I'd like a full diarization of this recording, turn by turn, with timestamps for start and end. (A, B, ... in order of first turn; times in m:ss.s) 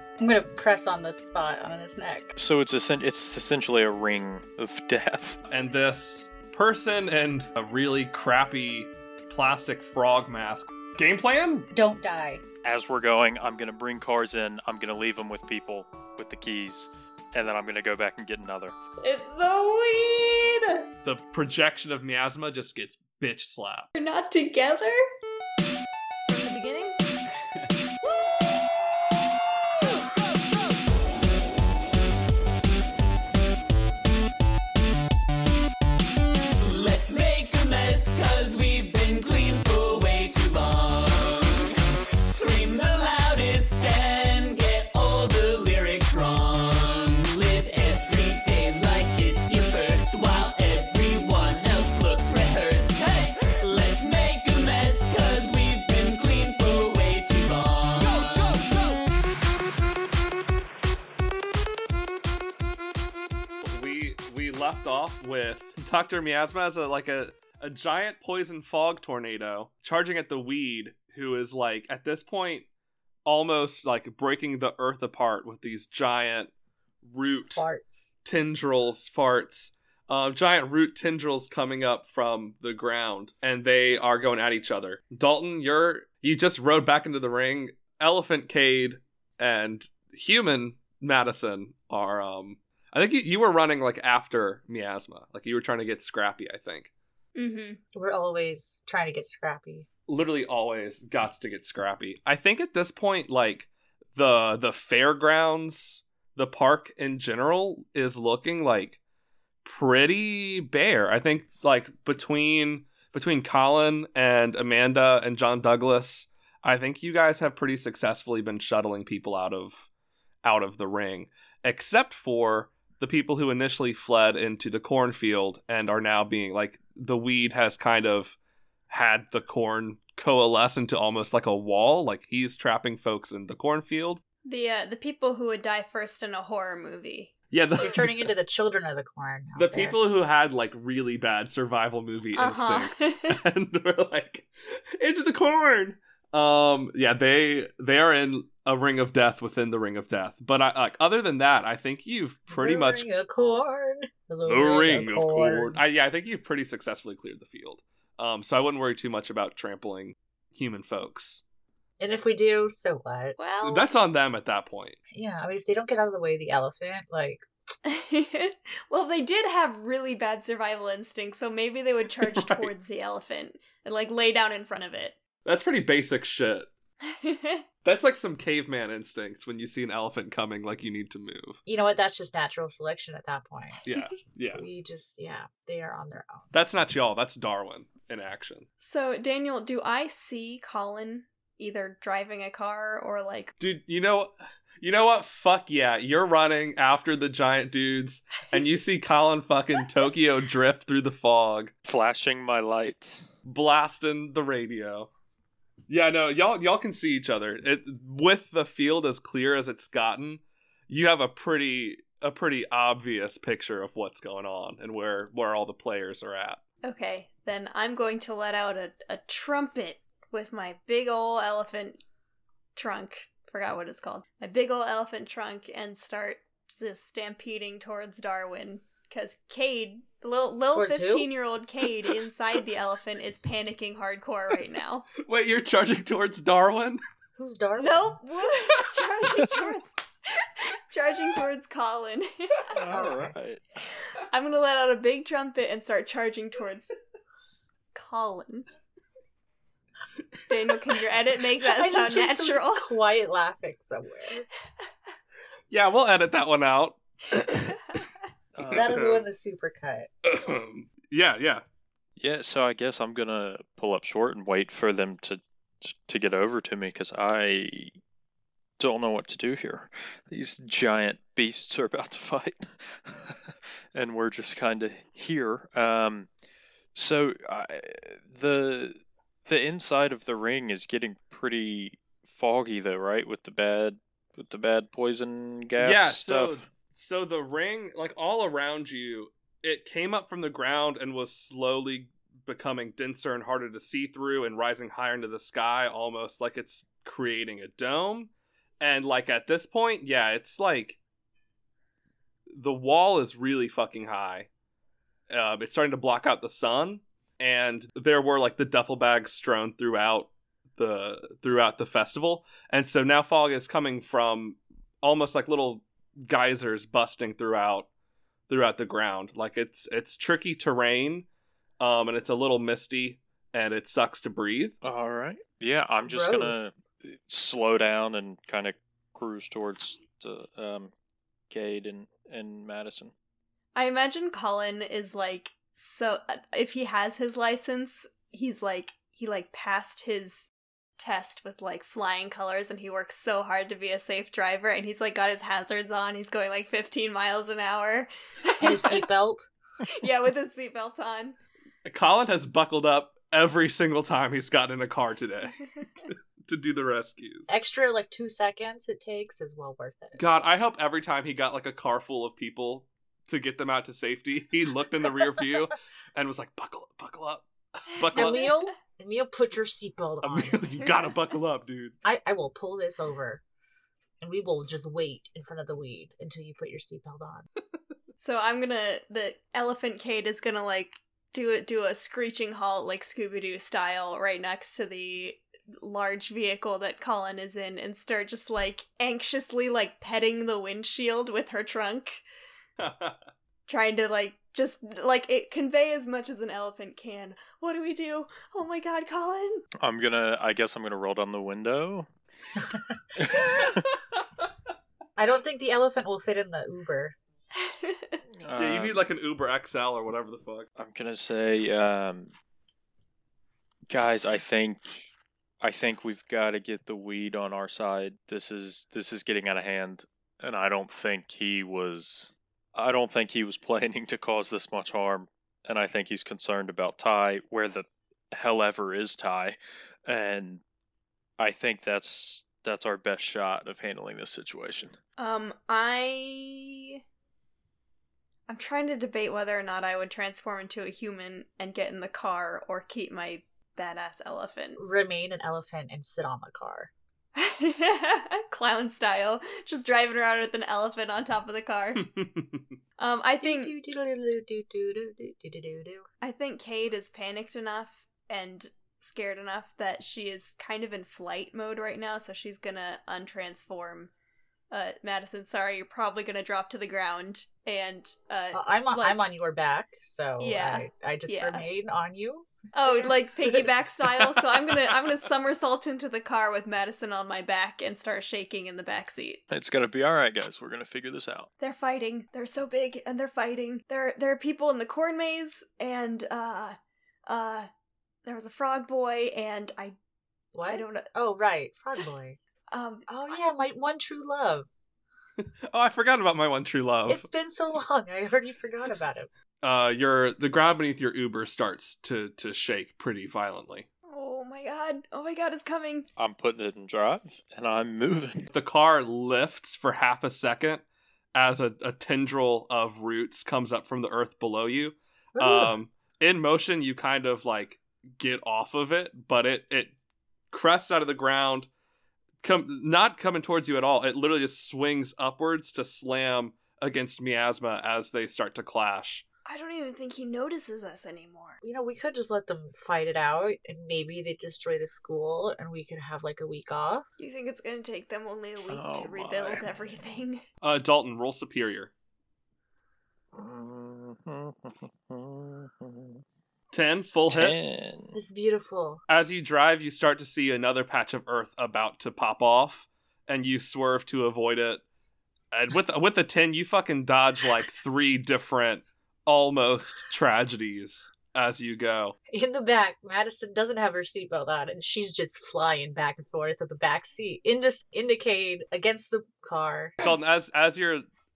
0:00.2-0:02.4 A
0:02.4-0:05.4 B
0:05.5-0:11.7 C
0:11.7-0:12.4 A
0:12.6-0:18.8 B
0:19.0-0:20.8 D
0:21.0-0:23.9 C
0:24.0-0:25.0 D
0:26.3-0:27.0 D
0:36.6-0:41.7 E
0:42.2-0:58.7 E
1:03.6-1:12.7 C
1:13.2-1:16.5 C
1:17.0-1:17.6 C
1:17.5-1:18.2 A
1:18.2-1:36.9 C
1:37.4-1:37.8 D
1:37.9-1:39.9 A
1:40.1-1:49.0 C
1:49.6-1:59.9 C
2:00.4-2:08.4 C
2:08.9-2:14.2 C
2:14.4-2:17.3 D
2:17.5-2:18.3 C
2:17.8-2:20.0 A
2:19.6-2:33.1 C
2:22.4-2:23.4 D
2:32.5-2:35.8 A
2:34.5-2:41.4 C
2:42.0-2:43.4 A
2:43.4-2:43.9 D
2:43.6-2:45.0 C
2:45.1-2:47.4 A
2:47.8-2:55.2 D
2:52.2-2:52.7 C
2:55.5-2:56.7 C
2:57.0-2:57.6 D
2:57.8-3:01.6 C
3:01.7-3:03.8 A
3:03.8-3:04.6 C
3:04.5-3:06.5 A
3:06.5-3:08.7 C
3:08.8-3:13.5 D
3:13.6-3:21.7 C
3:21.8-3:23.3 B
3:23.4-3:25.1 C
3:25.9-3:36.6 C
3:36.8-3:42.0 D
3:42.8-3:55.1 D
3:50.7-3:51.3 A
3:55.2-3:57.0 C
3:57.4-3:58.2 A
3:57.8-4:02.8 D
4:02.7-4:03.9 B
4:02.9-4:03.4 A
4:04.3-4:07.0 D
4:07.9-4:08.7 D
4:10.5-4:12.8 D
4:11.6-4:14.4 A
4:15.7-4:17.8 C
4:18.6-4:19.0 B
4:18.7-4:20.1 A
4:18.7-4:19.2 C
4:20.2-4:21.6 C
4:22.2-4:28.0 B
4:28.8-4:36.3 B
4:37.0-4:46.6 B
4:45.8-5:01.0 C
5:02.5-5:04.5 C
5:05.3-5:17.9 C
5:18.5-5:21.3 C
5:21.8-5:24.8 C
5:24.8-5:30.9 B
5:26.0-5:26.8 A
5:31.5-5:33.1 B
5:33.8-5:49.0 D
5:48.6-5:49.5 A
5:49.9-5:51.4 D
5:51.8-5:57.5 C
5:57.5-6:00.2 A
6:00.2-6:08.5 C
6:08.1-6:08.4 D
6:08.2-6:10.7 A
6:10.2-6:12.0 C
6:12.0-6:13.4 A
6:14.2-6:17.5 A
6:18.2-6:32.2 D
6:32.8-6:33.2 C
6:33.7-6:39.6 D
6:39.8-6:42.1 B
6:42.6-6:42.9 A
6:43.2-6:43.9 B
6:45.2-6:47.2 A
6:47.6-6:48.2 D
6:48.4-6:49.0 B
6:48.6-6:50.7 C
6:50.8-6:52.3 B
6:53.9-6:55.1 B
6:55.6-7:10.6 B
7:11.4-7:15.0 B
7:15.2-7:17.0 D
7:18.5-7:24.8 D
7:24.8-7:26.9 A
7:27.4-7:32.1 D
7:32.0-7:32.6 C
7:33.0-7:33.7 D
7:33.4-7:36.1 A
7:36.2-7:44.1 D
7:44.7-7:49.2 D
7:48.5-7:53.7 A
7:50.4-7:51.7 D
7:52.7-7:59.4 D
7:59.5-8:01.5 B
8:01.6-8:07.7 D
8:08.2-8:10.0 D
8:10.5-8:12.4 A
8:10.7-8:11.1 D
8:12.7-8:13.4 D
8:13.1-8:14.7 A
8:15.4-8:17.3 C
8:17.1-8:19.3 A
8:19.6-8:23.9 C
8:24.1-8:26.1 D
8:26.2-8:28.5 B
8:28.5-8:30.8 C
8:31.4-8:39.9 C
8:35.4-8:35.8 A
8:40.5-8:41.7 C
8:42.4-8:49.2 C
8:49.5-8:51.6 D
8:51.6-8:57.0 A
8:57.2-9:00.4 D
8:58.7-8:59.7 B
9:00.6-9:01.9 C
9:03.3-9:06.2 B
9:06.7-9:07.6 C
9:07.3-9:08.2 B
9:08.1-9:09.0 A
9:09.1-9:14.8 C
9:15.5-9:22.2 C
9:22.3-9:30.0 A
9:30.0-9:31.0 C